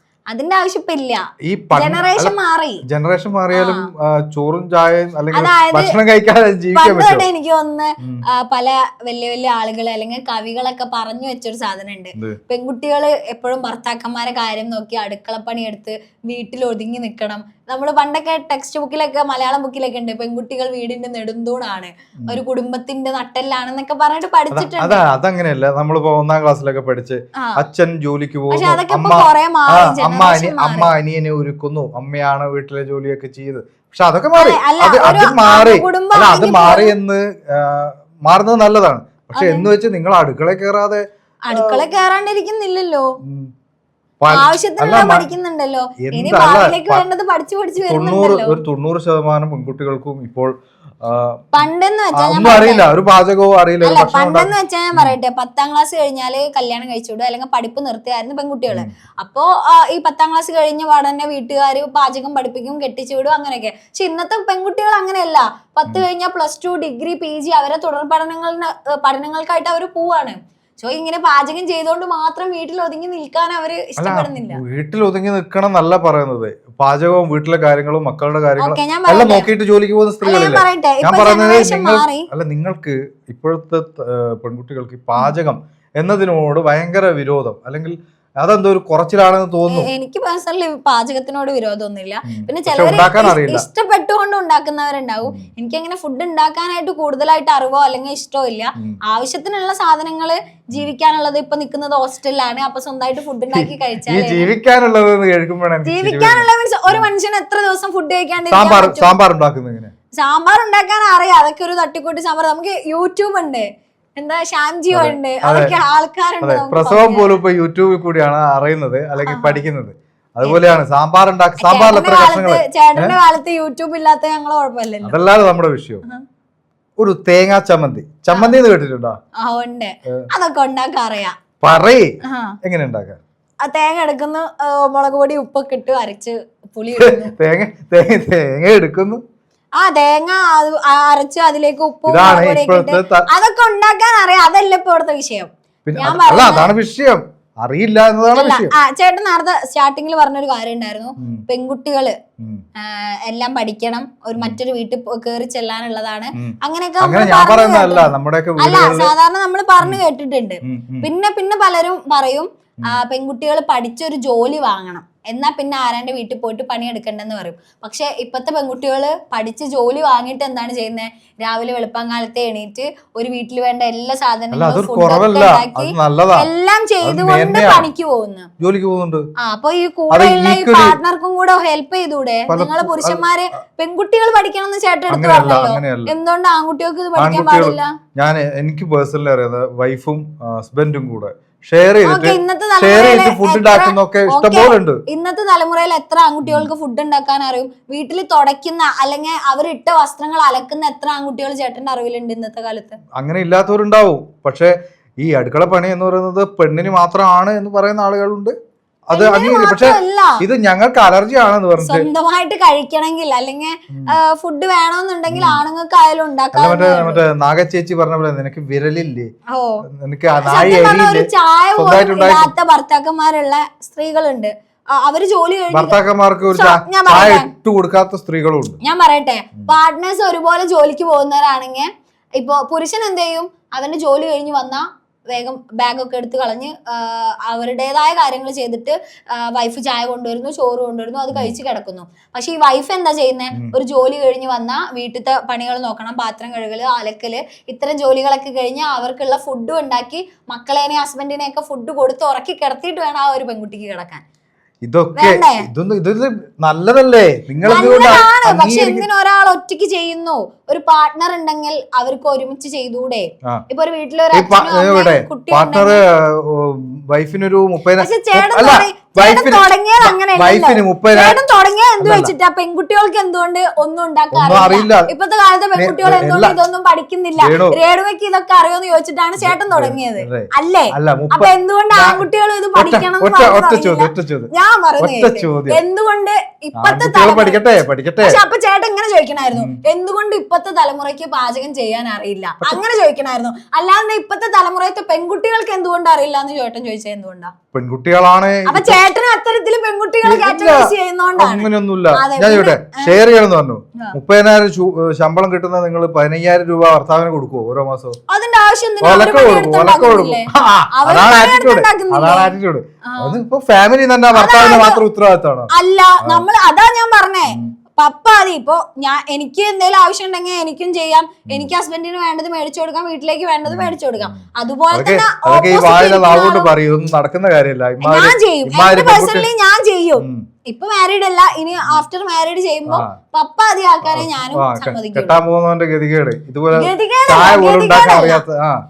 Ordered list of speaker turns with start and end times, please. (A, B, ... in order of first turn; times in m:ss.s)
0:00.3-0:02.8 A
0:01.4-0:07.2 B
0:03.5-0:03.9 A
0:05.3-0:05.9 A
0:06.7-0:25.0 A
0:24.5-0:41.8 B
0:28.5-0:30.9 A
0:34.4-0:36.9 A
0:39.4-0:39.6 A
0:41.4-0:43.1 A
0:43.2-0:43.5 B
0:44.2-0:45.2 B
0:44.3-0:48.6 A
0:46.0-0:47.0 B
0:47.8-0:51.5 B
0:51.5-0:52.9 A
0:52.1-0:55.1 B
0:53.8-1:14.6 A
1:14.0-1:29.9 B
1:18.6-1:19.5 A
1:20.2-1:22.3 A
1:29.7-1:44.4 A
1:32.2-1:33.6 B
1:43.5-1:47.1 B
1:45.8-1:49.1 A
1:48.4-1:49.9 B
1:50.2-1:57.4 A
1:54.9-1:55.8 B
1:56.4-2:03.2 B
1:59.2-1:59.6 A
2:00.4-2:00.8 A
2:01.6-2:05.2 A
2:05.0-2:06.0 B
2:07.0-2:09.2 B
2:08.3-2:08.6 A
2:09.4-2:11.4 A
2:11.6-2:13.2 B
2:12.2-2:12.6 A
2:13.6-2:17.3 A
2:17.0-2:19.2 B
2:19.8-2:26.7 A
2:22.0-2:23.3 B
2:25.8-2:28.7 B
2:28.3-2:32.2 A
2:31.2-2:31.4 B
2:32.4-2:32.6 B
2:32.8-2:58.5 A
2:36.3-2:39.1 B
2:40.6-2:41.1 B
2:54.5-2:56.5 B
2:57.0-2:57.9 B
2:58.6-2:59.3 B
2:59.4-3:07.9 A
3:00.1-3:01.0 B
3:02.5-3:03.2 B
3:05.1-3:06.1 B
3:07.2-3:15.0 B
3:12.0-3:23.0 A
3:16.4-3:16.7 B
3:23.1-3:28.5 B
3:29.1-3:32.0 B
3:29.1-3:30.4 A
3:31.8-3:37.2 A
3:33.9-3:34.2 B
3:35.3-3:35.6 B
3:36.5-3:39.3 B
3:39.5-3:39.8 A
3:39.9-3:42.5 B
3:40.4-3:46.0 A
3:45.7-3:48.8 B
3:46.5-3:47.5 A
3:48.8-4:14.2 A
4:14.8-4:19.0 B
4:15.2-4:15.7 A
4:17.6-4:26.0 A
4:24.3-4:31.4 B
4:28.0-4:47.6 A
4:32.0-4:32.3 B
4:34.3-4:35.1 B
4:35.8-4:36.6 B
4:37.4-4:37.8 B
4:39.4-4:45.8 B
4:46.8-4:48.4 B
4:48.2-4:57.5 A
4:49.5-4:49.8 B
4:57.7-4:59.0 B
4:58.6-5:03.2 A
5:00.2-5:08.2 B
5:08.3-5:13.4 A
5:09.0-5:15.7 B
5:14.3-5:15.0 A
5:15.7-5:26.7 A
5:23.6-5:29.5 B
5:28.0-5:35.3 A
5:30.2-5:30.4 B
5:32.9-5:33.2 B
5:34.0-5:38.8 B
5:36.7-5:38.4 A